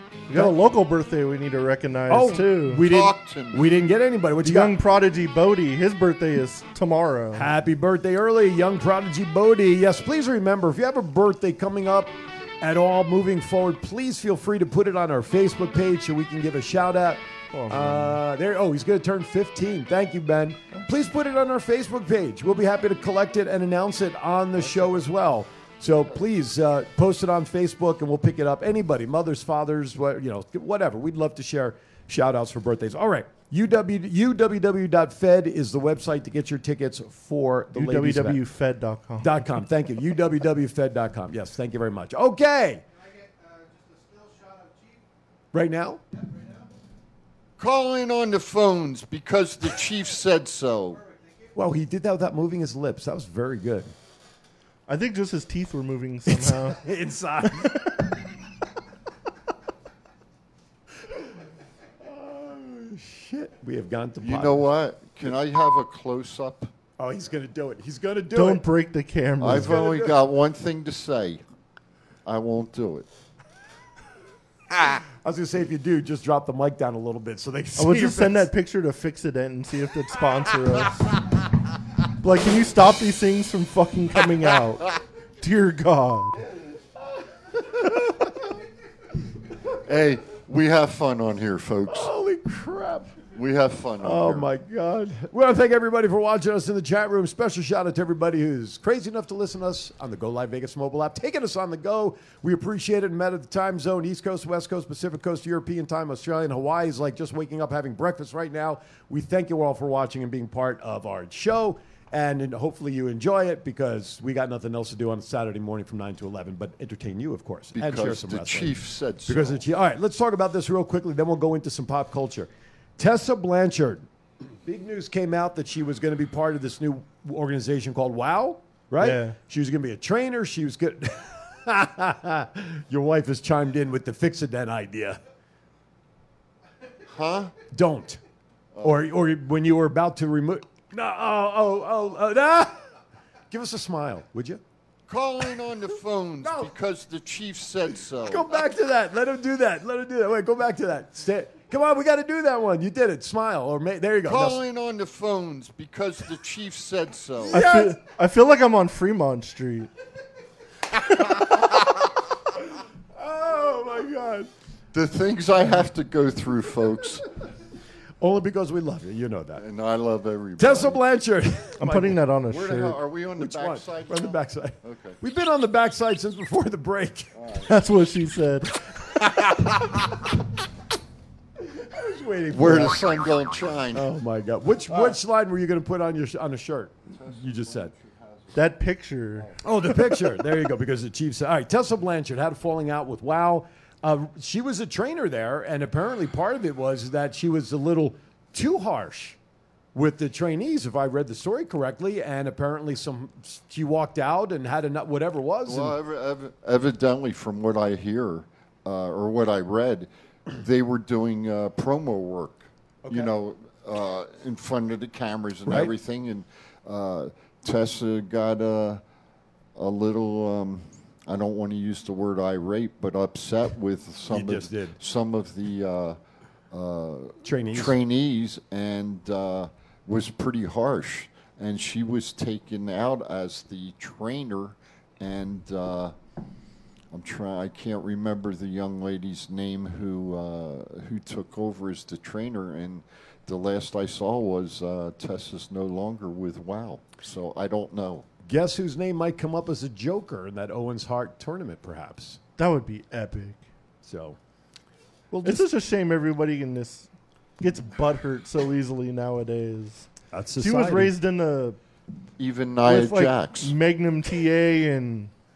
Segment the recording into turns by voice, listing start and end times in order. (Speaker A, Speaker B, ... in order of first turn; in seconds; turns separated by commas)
Speaker A: 0.3-2.8, Speaker B: 2.1-4.7, Speaker C: 2.8-3.6, Speaker A: 4.4-7.5, Speaker B: 7.3-38.4, Speaker A: 17.5-18.2, Speaker A: 37.7-39.5, Speaker B: 39.2-42.8, Speaker B: 45.5-46.0, Speaker C: 47.6-51.0, Speaker B: 51.5-53.9, Speaker A: 54.9-56.8, Speaker B: 56.3-57.9, Speaker A: 57.6-57.9, Speaker B: 62.0-64.7, Speaker C: 64.2-66.7, Speaker B: 67.0-68.6, Speaker A: 68.3-69.8, Speaker C: 69.4-71.4, Speaker B: 69.5-70.2, Speaker C: 72.3-73.1, Speaker B: 75.2-78.5, Speaker A: 77.8-81.1, Speaker A: 82.2-86.4, Speaker C: 89.7-92.1, Speaker B: 91.9-93.1, Speaker C: 93.3-94.5, Speaker B: 94.0-124.1, Speaker C: 117.7-119.6, Speaker B: 124.6-135.2, Speaker A: 129.0-129.4, Speaker C: 137.0-137.6, Speaker B: 137.7-138.2, Speaker C: 138.7-139.1, Speaker B: 138.8-142.8, Speaker B: 143.5-144.6, Speaker C: 145.1-148.6, Speaker B: 146.4-146.7, Speaker B: 148.2-154.6, Speaker C: 154.2-157.6, Speaker B: 157.5-158.0, Speaker A: 157.5-159.9, Speaker B: 163.2-164.5, Speaker C: 164.9-167.3, Speaker B: 168.2-169.6, Speaker C: 169.6-171.0, Speaker B: 170.6-172.2, Speaker A: 171.8-173.0, Speaker C: 172.5-175.2, Speaker B: 173.4-177.3, Speaker C: 177.3-177.7, Speaker A: 177.7-178.8, Speaker B: 181.7-183.0, Speaker C: 182.5-184.1, Speaker B: 183.9-187.9, Speaker C: 184.9-185.2, Speaker C: 187.1-188.6, Speaker A: 188.5-189.5, Speaker B: 189.6-199.4, Speaker B: 199.9-205.9, Speaker C: 205.7-219.0, Speaker B: 213.0-213.3, Speaker B: 215.7-215.9, Speaker C: 219.8-226.2, Speaker B: 224.3-225.0, Speaker C: 226.7-236.1, Speaker B: 227.4-228.0, Speaker C: 237.1-248.3, Speaker B: 248.4-252.4, Speaker A: 252.6-253.6, Speaker B: 254.0-254.4, Speaker B: 255.3-255.7, Speaker A: 255.4-257.1, Speaker A: 257.6-260.1, Speaker B: 260.3-261.1, Speaker A: 260.6-261.8, Speaker C: 262.4-263.7, Speaker A: 262.9-265.3